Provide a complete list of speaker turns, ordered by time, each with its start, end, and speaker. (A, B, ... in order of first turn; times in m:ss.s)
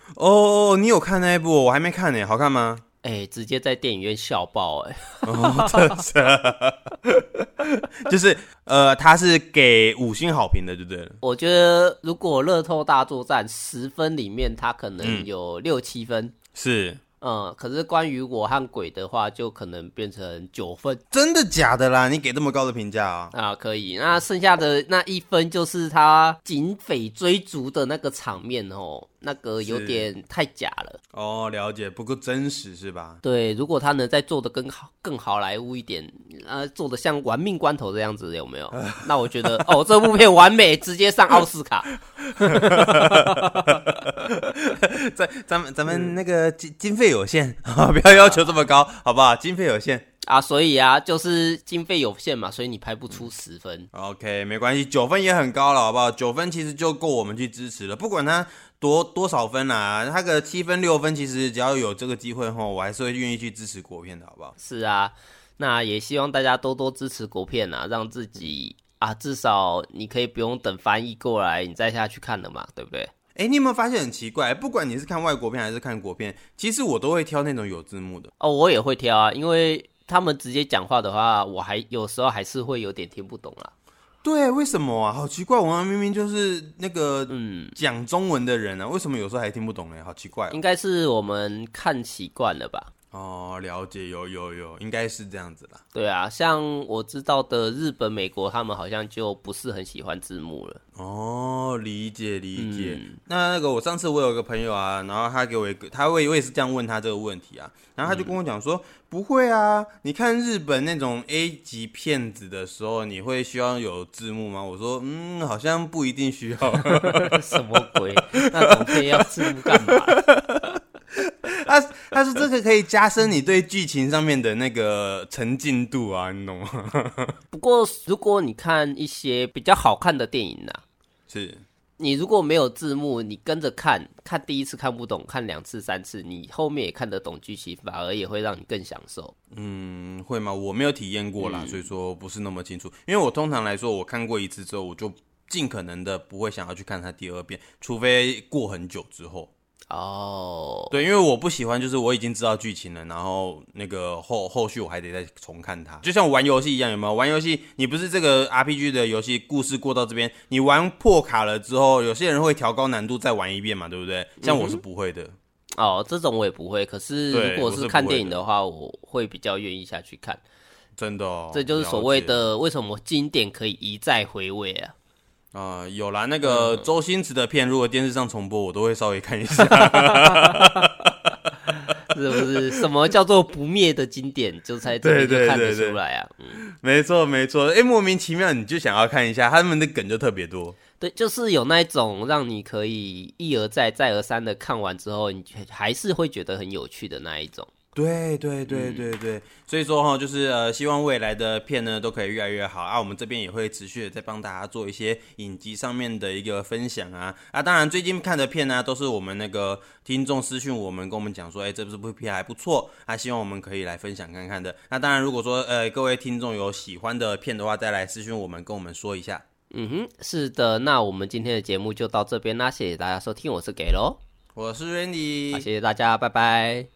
0:00.2-0:02.8 A
0:03.0-0:05.9 B
0:05.2-0:11.2 A
0:11.2-0:16.3 B
0:15.0-0:15.3 A
0:16.6-0:17.0 A
0:17.2-0:21.0 B
0:21.1-0:23.3 A
0:23.3-0:31.0 B
0:29.6-0:30.1 A
0:31.1-0:33.2 A
0:33.2-0:43.8 B
0:42.4-0:50.0 A
0:48.1-0:48.6 B
0:50.3-0:53.9 B
0:53.9-1:04.6 A
1:04.6-1:13.1 B
1:13.4-1:18.3 A
1:18.4-1:23.7 B
1:24.2-1:30.6 A
1:27.3-1:27.8 B
1:30.5-1:32.9 B
1:33.1-1:35.8 A
1:35.9-1:40.8 B
1:41.0-1:57.4 A
1:42.6-1:43.2 B
1:48.0-1:48.4 B
1:57.0-2:00.3 B
1:58.4-1:58.7 A
1:59.7-2:00.6 A
2:01.2-2:07.3 A
2:07.5-2:10.8 B
2:11.3-2:11.6 A
2:12.0-2:19.3 B
2:19.5-2:29.5 A
2:21.4-2:21.9 B
2:29.9-2:30.9 B
2:30.9-2:45.4 A
2:44.4-2:44.8 B
2:45.8-2:50.4 B
2:47.3-2:48.4 A
2:51.0-2:52.5 A
2:51.5-2:54.9 B
2:55.5-3:01.4 A
2:56.4-2:56.9 B
2:59.7-3:00.9 B
3:02.1-3:06.6 B
3:05.0-3:06.0 A
3:06.6-3:10.8 A
3:11.0-3:17.7 B
3:18.0-3:39.4 A
3:18.7-3:19.1 B
3:39.7-3:44.2 B
3:44.6-3:45.7 A
3:45.5-3:46.9 B